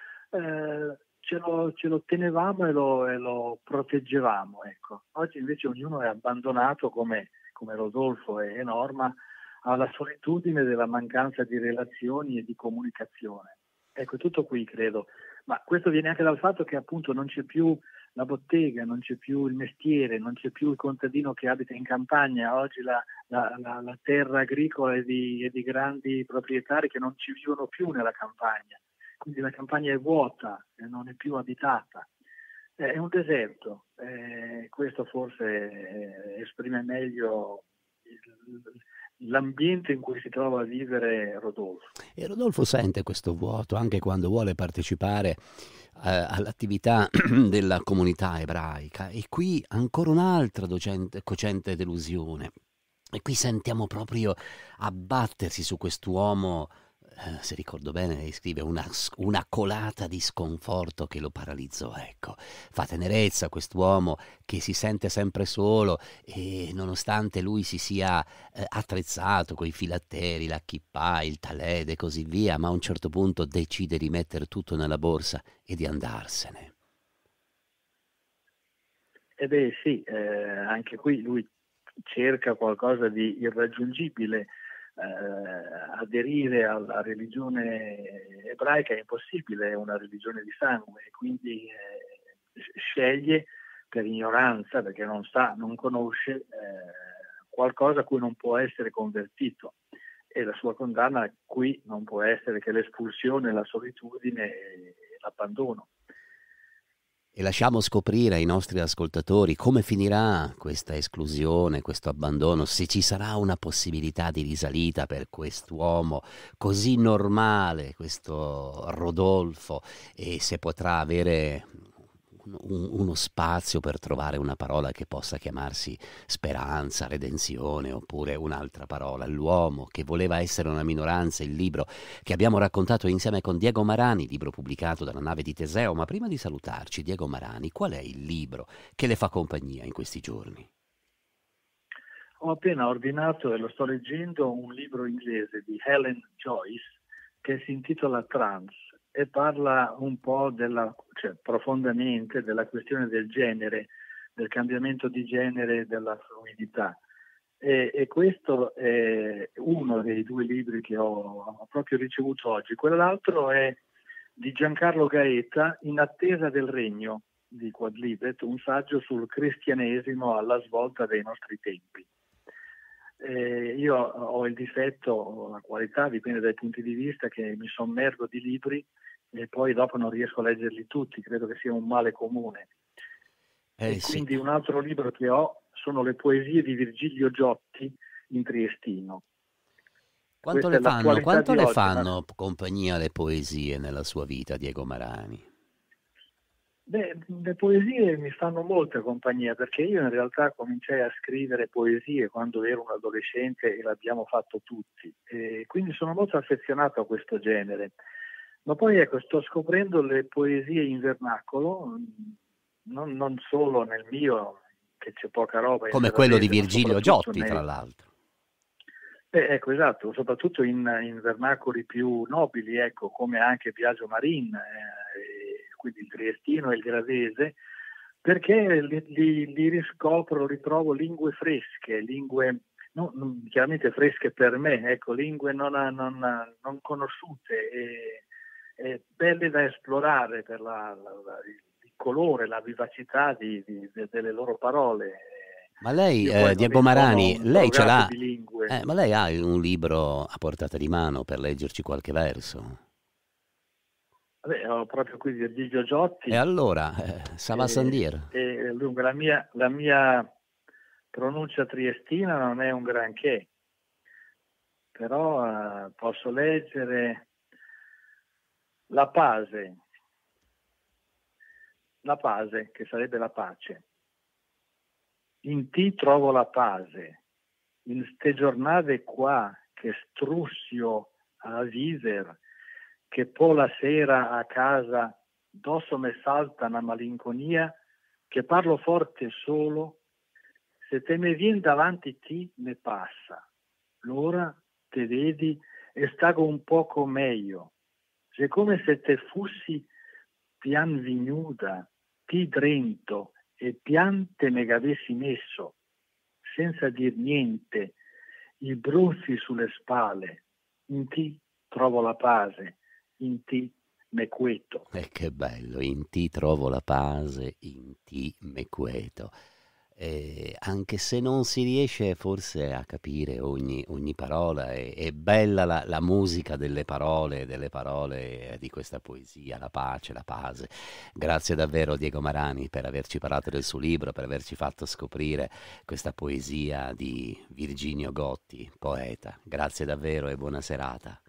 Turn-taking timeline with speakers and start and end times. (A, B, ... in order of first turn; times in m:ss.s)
0:00.3-0:32.1 A
0:32.8-0:41.9 A
0:42.2-0:52.5 B
0:53.2-1:16.7 B
1:19.4-1:21.5 A
1:22.0-1:39.7 A
1:40.3-1:45.9 A
1:47.3-2:01.8 B
2:02.4-2:20.7 B
2:22.4-2:37.0 A
2:37.6-2:43.8 A
2:44.4-2:52.1 A
2:53.2-3:02.7 A
3:03.8-3:04.4 B
3:03.8-3:09.2 A
3:10.4-3:15.4 B
3:10.5-3:12.1 A
3:16.9-3:27.9 A
3:28.6-3:37.6 A
3:35.9-3:38.0 B
3:39.3-3:47.6 A
3:48.2-3:58.2 A
3:58.8-4:05.5 A
4:05.8-4:08.1 B
4:06.2-4:08.8 A
4:08.7-4:12.8 B
4:14.4-4:16.4 A
4:16.3-4:18.3 B
4:17.5-4:20.3 A
4:21.1-4:23.5 A
4:24.9-4:27.2 A
4:28.9-4:29.8 A
4:32.0-4:33.8 A
4:35.4-4:37.2 A
4:37.8-4:42.4 A
4:43.1-4:47.7 A
4:48.3-4:50.0 A
4:50.8-4:53.4 A
4:54.0-4:57.7 A
4:58.3-4:59.9 A
5:00.6-5:05.7 A
5:06.4-5:07.9 A
5:08.6-5:14.9 A
5:14.9-5:19.3 B
5:20.0-5:41.2 B